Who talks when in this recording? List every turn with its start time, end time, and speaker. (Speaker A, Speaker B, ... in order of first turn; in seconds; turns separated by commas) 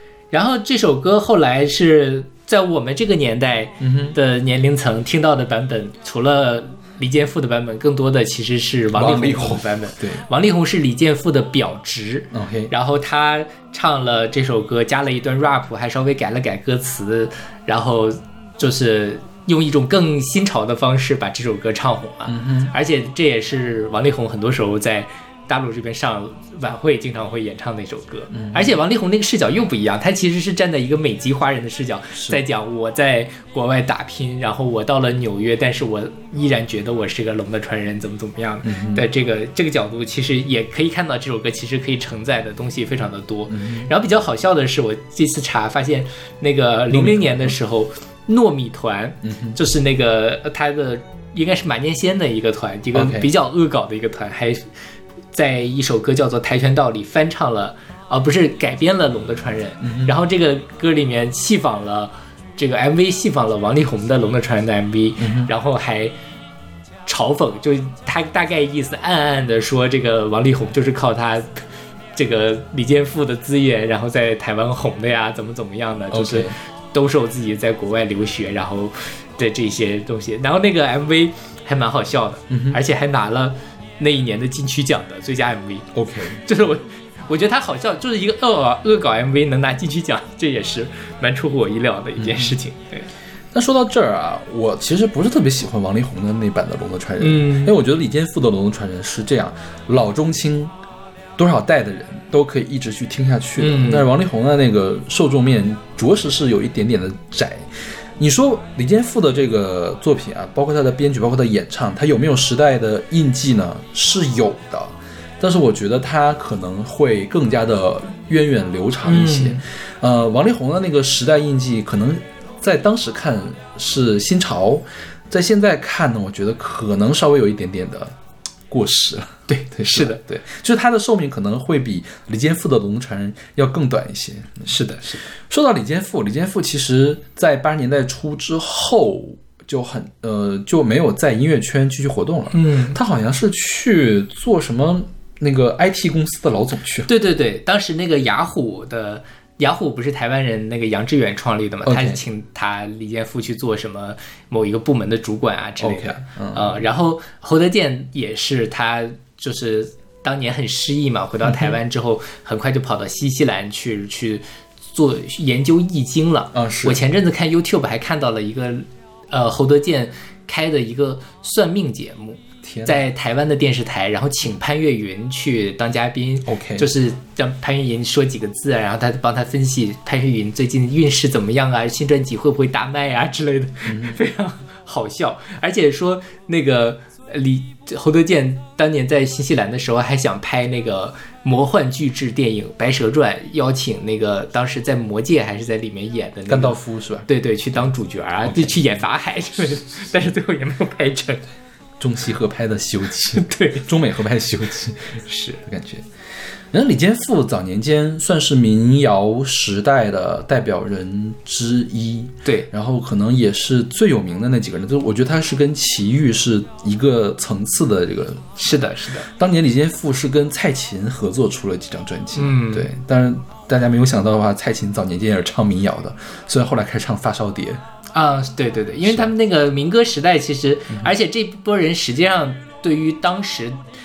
Speaker A: 0.3-54.7, Speaker B: 3.8-4.2, Speaker B: 8.9-10.2, Speaker B: 12.3-12.7, Speaker B: 22.2-22.7, Speaker B: 28.3-28.7, Speaker B: 38.6-39.0, Speaker B: 43.5-43.9, Speaker B: 46.9-47.5, Speaker B: 49.2-49.6, Speaker B: 52.9-53.3, Speaker A: 55.3-66.1, Speaker B: 59.8-60.1, Speaker B: 65.2-65.5, Speaker A: 67.0-71.6, Speaker A: 72.1-85.9, Speaker B: 76.1-76.5, Speaker B: 82.5-82.8, Speaker B: 85.9-86.4, Speaker A: 86.4-93.1, Speaker B: 92.2-92.5, Speaker B: 93.5-100.7, Speaker A: 97.2-97.7, Speaker B: 101.4-128.1, Speaker A: 103.6-104.1, Speaker A: 119.0-119.6, Speaker B: 128.7-134.7, Speaker A: 129.5-130.2, Speaker A: 134.7-135.2, Speaker B: 135.3-147.1, Speaker A: 142.5-143.0, Speaker A: 147.1-201.4, Speaker B: 151.8-152.2, Speaker B: 155.8-156.8, Speaker B: 161.4-161.8, Speaker B: 166.5-167.0, Speaker B: 172.6-173.0, Speaker B: 176.4-176.9, Speaker B: 183.8-184.2, Speaker B: 196.5-197.3, Speaker B: 198.4-198.9, Speaker B: 202.0-206.1, Speaker A: 203.3-203.8, Speaker A: 205.3-205.6, Speaker B: 206.7-218.6, Speaker A: 218.6-219.3, Speaker B: 219.3-227.8, Speaker A: 222.3-222.9, Speaker A: 228.1-233.8